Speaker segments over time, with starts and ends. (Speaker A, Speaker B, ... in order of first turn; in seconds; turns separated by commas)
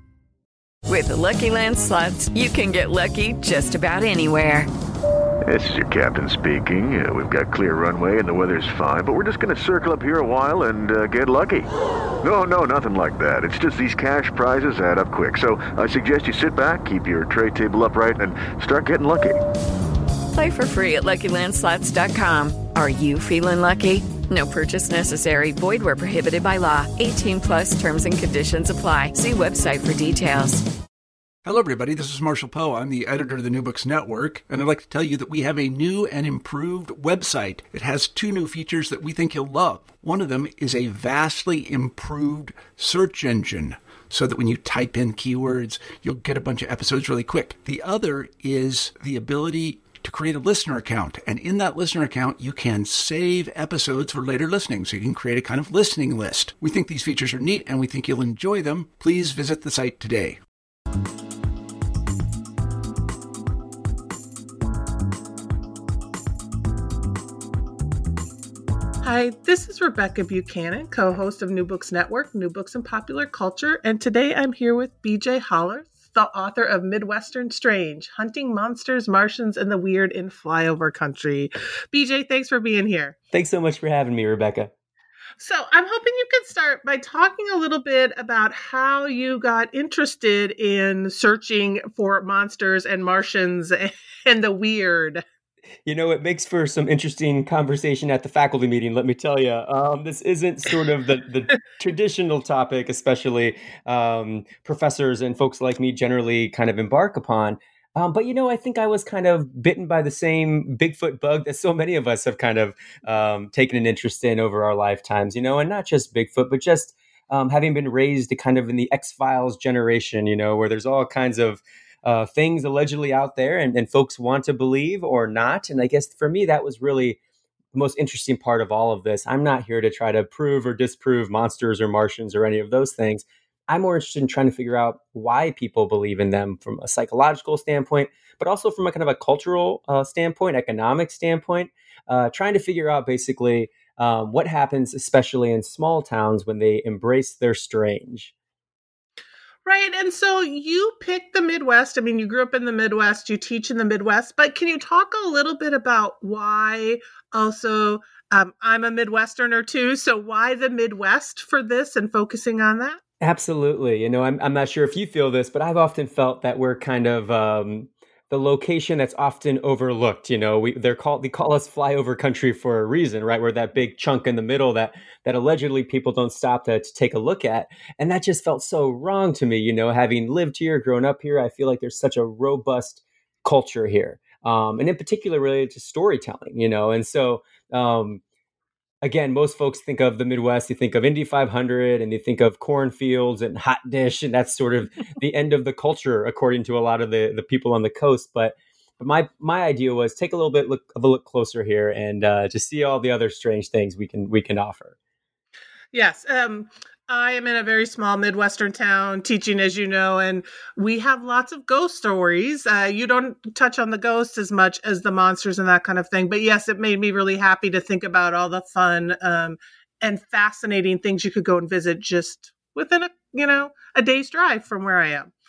Speaker A: 0.9-4.7, Speaker B: 5.5-11.7, Speaker B: 12.2-19.4, Speaker A: 20.3-30.6, Speaker C: 31.4-60.4, Speaker D: 69.0-83.2, Speaker E: 83.3-84.7, Speaker D: 85.4-95.2, Speaker E: 95.8-127.2, Speaker E: 127.7-148.3, Speaker D: 149.7-163.0, Speaker E: 163.2-188.2, Speaker E: 189.0-204.9, Speaker D: 205.9-225.3